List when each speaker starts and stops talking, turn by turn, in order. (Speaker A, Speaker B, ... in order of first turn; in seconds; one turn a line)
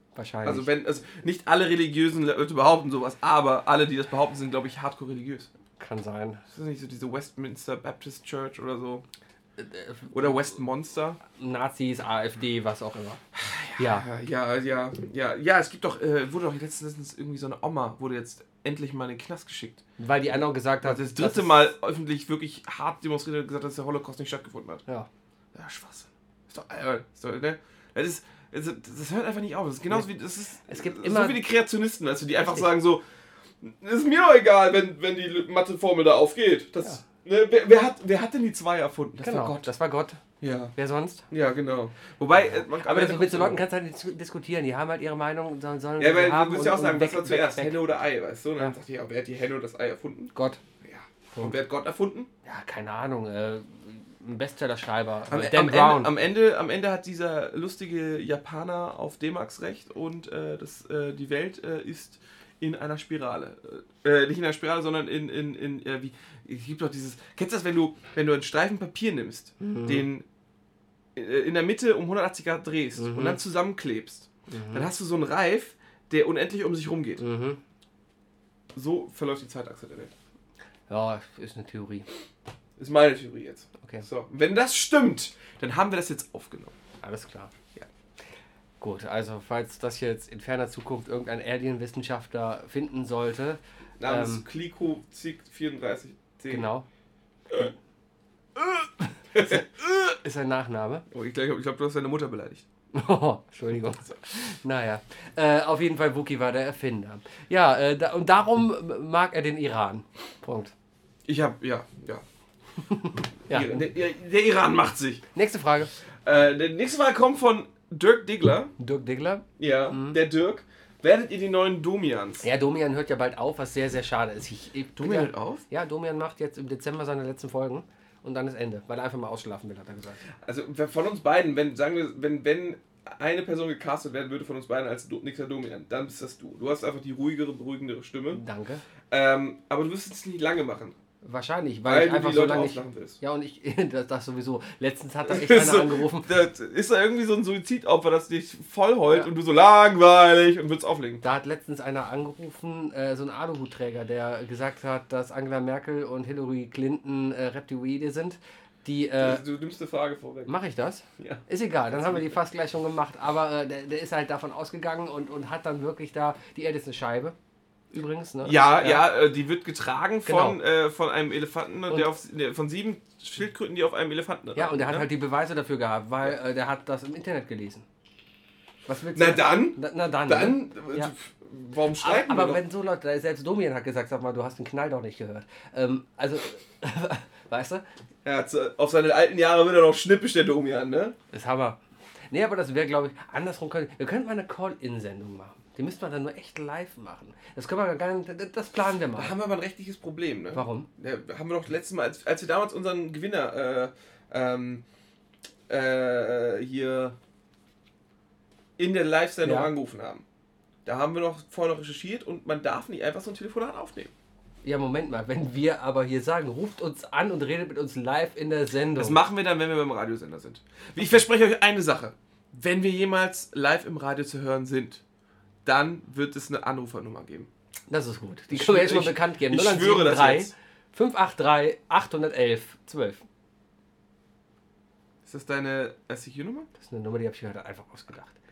Speaker A: 0.1-0.7
Speaker B: 0.4-5.5
Speaker A: 5.8-6.4
Speaker B: 6.5-9.1
Speaker A: 9.6-10.5
Speaker B: 10.1-11.2
Speaker A: 11.3-13.2
Speaker B: 13.3-19.8
Speaker A: 13.8-14.1
Speaker A: 20.0-21.6
Speaker B: 20.8-24.8
Speaker B: 25.5-33.0
Speaker A: 30.7-31.4
Speaker A: 32.4-32.7
Speaker B: 33.6-39.7
Speaker A: 39.2-40.2
Speaker B: 40.4-40.7
Speaker A: 40.8-41.3
Speaker B: 41.3-43.6
Speaker A: 42.7-47.8
Speaker B: 46.0-52.3
Speaker A: 50.3-50.6
Speaker A: 51.3-51.6
Speaker A: 52.4-56.1
Speaker B: 55.3-70.2
Speaker A: 69.6-70.1
Speaker B: 71.2-77.2
Speaker A: 73.0-73.4
Speaker A: 74.5-74.9
Speaker A: 77.2-77.6
Speaker B: 78.7-80.1
Speaker A: 80.9-82.1
Speaker B: 82.8-86.7
Speaker A: 87.0-87.5
Speaker A: 88.8-94.4
Speaker B: 94.0-96.7
Speaker A: 96.5-96.8
Speaker A: 98.7-101.0
Speaker B: 99.3-99.8
Speaker B: 101.1-102.6
Speaker A: 102.9-110.7
Speaker B: 111.3-112.2
Speaker A: 112.8-113.8
Speaker B: 113.5-115.2
Speaker A: 115.3-115.9
Speaker B: 116.2-118.7
Speaker A: 118.8-120.2
Speaker B: 119.6-122.4
Speaker A: 122.4-130.2
Speaker B: 125.0-125.6
Speaker B: 130.4-138.4
Speaker A: 138.3-138.8
Speaker B: 139.1-140.9
Speaker A: 141.2-146.3
Speaker B: 141.8-143.2
Speaker B: 145.3-151.2
Speaker A: 151.2-159.4
Speaker B: 159.2-160.5
Speaker A: 160.4-167.3
Speaker B: 161.2-162.3
Speaker A: 167.9-169.1
Speaker B: 168.4-175.1
Speaker A: 170.2-170.6
Speaker A: 174.6-177.8
Speaker A: 178.9-181.1
Speaker B: 179.1-182.6
Speaker A: 182.0-187.8
Speaker B: 188.2-191.2
Speaker A: 191.3-191.8
Speaker A: 192.3-199.3
Speaker B: 199.1-204.8
Speaker A: 200.5-200.9
Speaker B: 205.7-207.2
Speaker B: 208.8-210.2
Speaker A: 209.4-209.7
Speaker B: 210.8-214.1
Speaker A: 214.6-219.2
Speaker B: 218.9-225.0
Speaker B: 225.6-227.5
Speaker A: 227.9-233.2
Speaker B: 228.5-230.5
Speaker B: 235.2-236.7
Speaker A: 236.8-238.3